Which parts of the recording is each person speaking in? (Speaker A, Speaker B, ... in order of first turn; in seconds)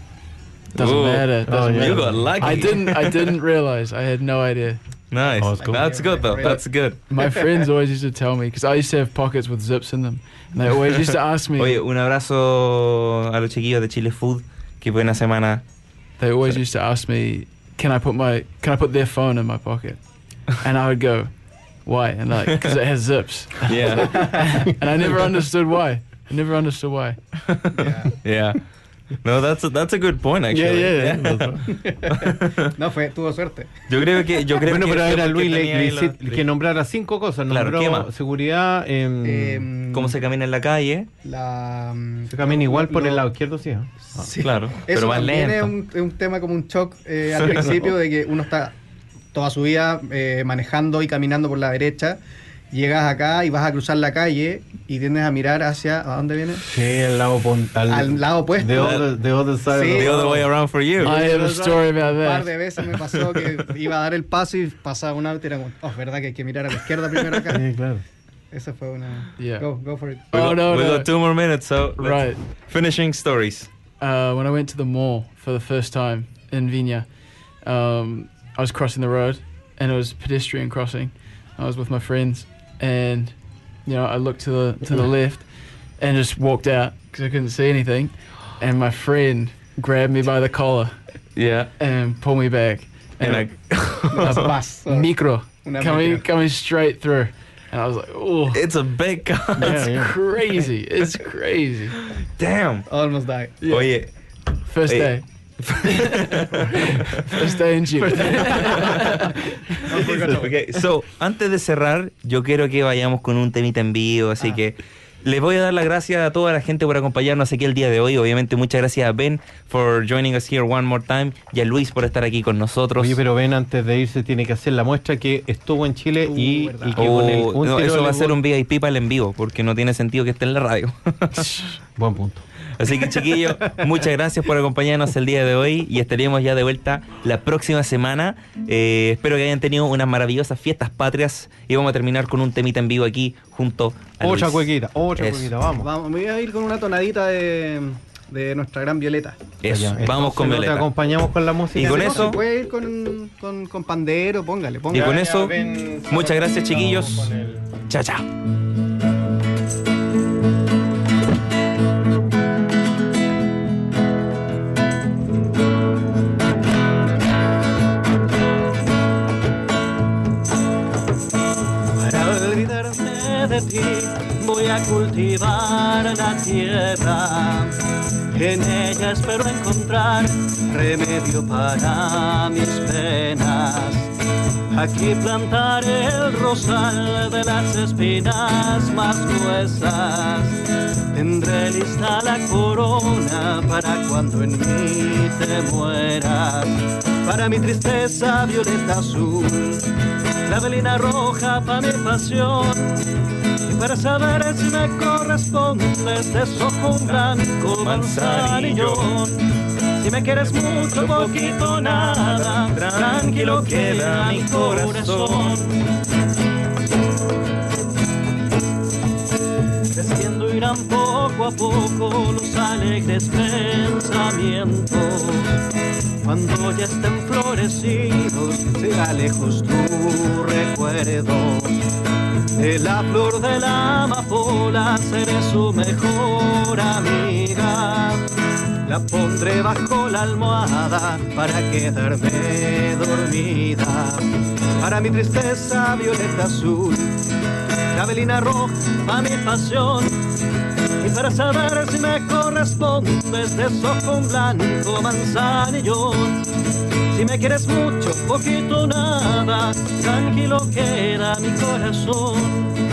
Speaker A: 0.8-4.8, 6.4-11.8, 16.2-21.3, 21.8-27.2, 61.0-62.5, 69.4-69.7, 70.3-71.1, 72.0-72.4, 74.0-77.1, 77.6-83.3, 83.8-85.5, 86.0-91.0, 91.8-93.5, 94.2-98.6, 99.6-102.0, 103.6-103.9, 104.7-105.2, 105.8-110.0
Speaker B: 0.8-3.3, 5.1-7.0, 11.6-15.6, 22.5-22.7, 23.6-24.5, 27.5-28.6, 29.2-32.7, 33.9-36.5, 37.5-38.1, 39.9-41.1, 44.4-45.7, 47.3-47.9, 58.8-59.0, 59.9-61.2, 70.3-73.7, 91.4-91.7, 93.2-94.5, 98.5-99.9, 102.0-102.9, 103.7-104.1, 104.9-109.2, 109.8-123.2, 127.0-131.6, 132.8-145.5, 149.6-150.9, 151.7-152.4, 154.9-155.6, 156.1-157.3, 157.9-158.3, 207.8-209.3, 210.8-215.7
Speaker C: 1.4-2.6, 5.4-5.8, 30.5-31.7, 34.6-39.7, 42.3-44.2, 56.7-62.0, 67.5-68.0, 99.6-100.2, 110.1-110.4, 123.0-128.4, 132.0-132.4, 144.2-145.9, 149.7-152.4, 154.9-157.7
Speaker D: 5.6-6.6, 27.8-28.1, 31.7-33.7, 39.2-40.1, 41.2-43.2, 44.0-48.8, 49.3-52.2, 52.7-56.7, 57.9-59.0, 59.7-60.4, 62.1-67.7, 68.5-70.3, 94.1-95.1, 95.6-96.3, 102.9-103.6, 108.2-108.6, 109.9-110.5, 126.2-127.2, 145.8-149.4, 151.8-155.2
Speaker E: 171.9-177.8, 178.3-184.1, 184.7-199.9, 200.5-203.1, 203.6-209.4, 209.9-215.8, 219.9-225.6, 226.2-231.8, 232.6-238.3, 238.8-247.2, 247.9-250.2, 251.0-256.4, 257.1-262.8